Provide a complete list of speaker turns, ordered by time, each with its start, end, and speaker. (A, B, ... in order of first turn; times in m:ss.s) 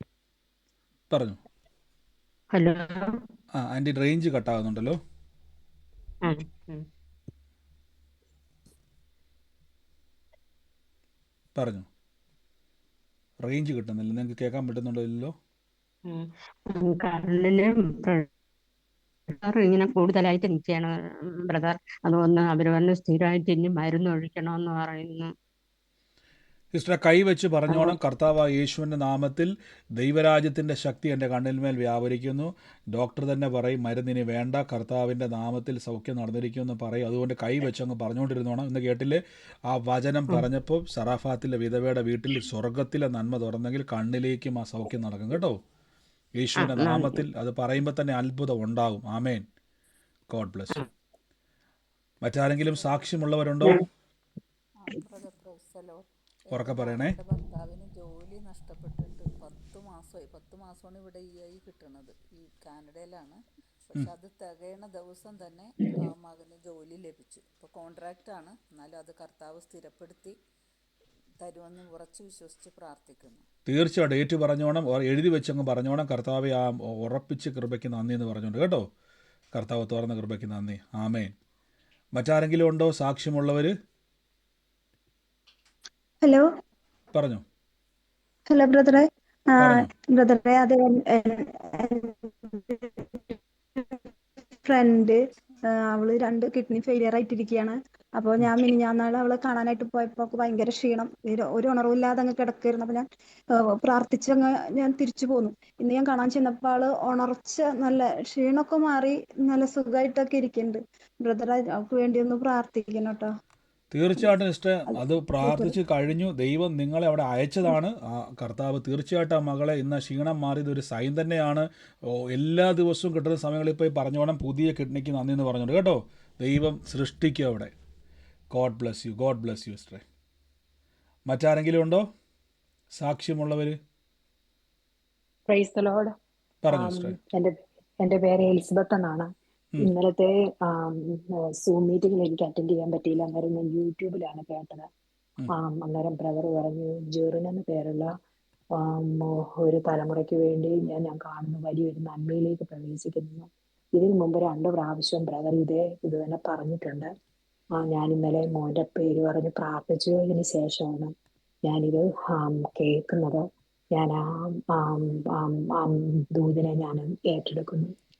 0:01.1-0:01.4 A
0:02.5-0:03.2 B
0:03.6-0:05.0 A
0:06.3-0:06.8 B
0:11.5-0:11.9 A
0:13.4-0:15.3 A
0:16.8-0:18.2 B
0:19.4-0:20.9 B
0:21.5-0:25.3 B
0:26.7-0:45.6 A
0:46.4-0:49.4 A
0:50.3-0:50.8 A
0:52.2-0:53.8 A
0:52.6-0:53.1 C
0:54.8-1:10.3 C
0:56.5-0:57.2 A
1:11.4-1:13.4 C
1:13.7-1:18.8 A
1:19.5-1:21.3 A
1:22.2-1:23.7 A
1:27.1-1:27.4 A
1:28.5-1:34.0 D
1:29.6-1:29.9 A
1:34.6-1:35.2 D
1:35.7-1:53.3 D
1:53.9-2:07.7 A
1:54.9-1:55.7 D
2:08.5-2:10.0 A
2:11.3-2:12.0 A
2:12.9-2:13.8 A
2:15.5-2:16.1 E
2:16.6-2:17.2 A
2:16.7-2:24.9 E
2:25.6-2:28.1 E
2:28.8-2:37.1 E
2:37.8-2:41.1 E
2:41.6-2:47.9 E